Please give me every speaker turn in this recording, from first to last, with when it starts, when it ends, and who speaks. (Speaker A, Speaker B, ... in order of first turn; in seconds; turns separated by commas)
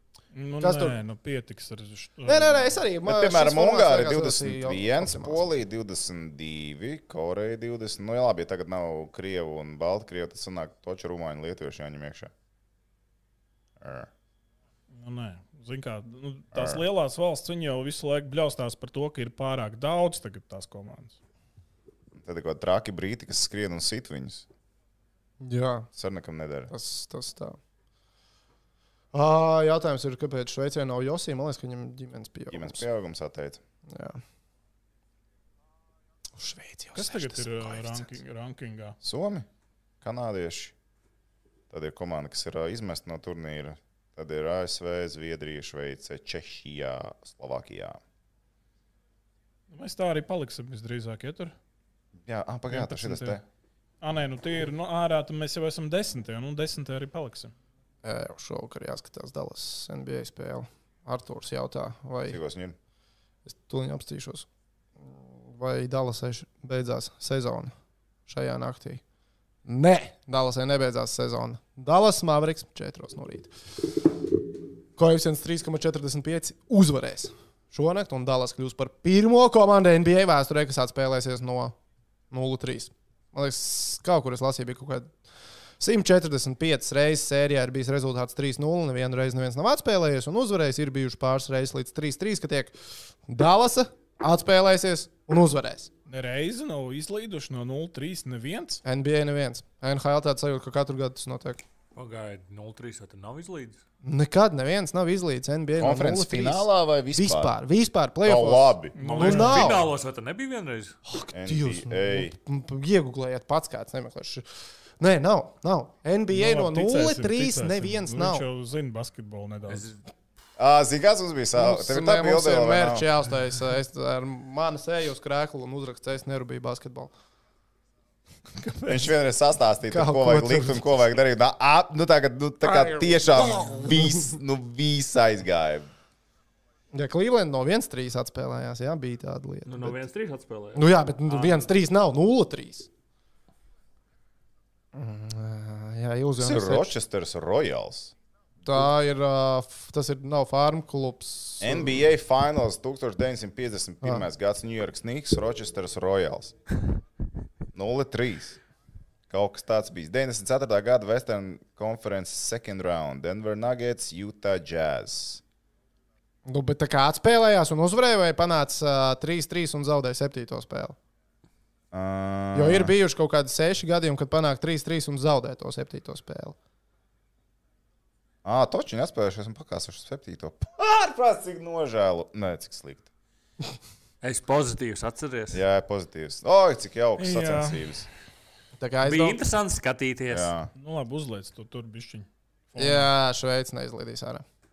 Speaker A: 0.3-2.8, Speaker B: 0.6-1.0, Speaker B: 2.2-5.5, Speaker C: 3.1-12.3, Speaker C: 13.8-14.1, Speaker A: 14.9-21.2, Speaker C: 16.5-16.8, Speaker C: 22.1-24.5, Speaker B: 25.4-25.9, Speaker C: 25.9-26.7, Speaker B: 26.7-27.6, Speaker B: 29.1-32.9, Speaker C: 32.5-33.6, Speaker B: 33.9-34.2, Speaker B: 36.4-38.1, Speaker A: 37.0-39.0, Speaker C: 39.0-39.5, Speaker C: 40.0-40.7, Speaker C: 41.7-48.0, Speaker A: 49.7-51.5, Speaker C: 52.2-53.4, Speaker A: 52.7-53.4, Speaker A: 54.0-57.5, Speaker B: 58.0-62.4, Speaker C: 62.3-62.8, Speaker B: 63.5-64.5, Speaker B: 65.4-67.7, Speaker B: 68.3-69.0, Speaker B: 69.7-73.5, Speaker B: 75.0-81.7, Speaker B: 82.3-85.1, Speaker B: 85.8-92.7, Speaker B: 93.3-95.9, Speaker A: 96.1-98.8, Speaker B: 98.8-101.6, Speaker D: 102.0-103.8, Speaker B: 104.0-109.9, Speaker C: 105.8-107.5, Speaker C: 108.2-109.0, Speaker A: 109.0-109.8, Speaker D: 109.0-111.0, Speaker B: 111.1-114.4, Speaker C: 111.3-112.3, Speaker B: 115.0-118.4, Speaker A: 116.3-119.9, Speaker D: 119.7-120.0, Speaker C: 120.6-123.1, Speaker B: 121.5-127.1, Speaker A: 128.5-129.1, Speaker C: 128.9-135.9, Speaker B: 129.9-130.9, Speaker B: 132.6-134.2, Speaker B: 136.9-140.0, Speaker D: 139.7-141.7, Speaker B: 140.7-142.9, Speaker B: 144.9-146.9, Speaker C: 146.4-148.1, Speaker B: 148.7-152.1, Speaker C: 151.6-156.5, Speaker C: 157.7-158.6, Speaker C: 159.3-165.4, Speaker B: 166.5-171.0, Speaker C: 171.9-172.9, Speaker B: 172.5-176.6, Speaker C: 178.4-183.1, Speaker D: 184.2-185.6, Speaker C: 185.5-188.1, Speaker A: 187.2-187.8, Speaker B: 188.8-189.4, Speaker D: 189.0-190.5, Speaker C: 190.3-190.7, Speaker A: 190.8-193.1, Speaker B: 192.8-194.4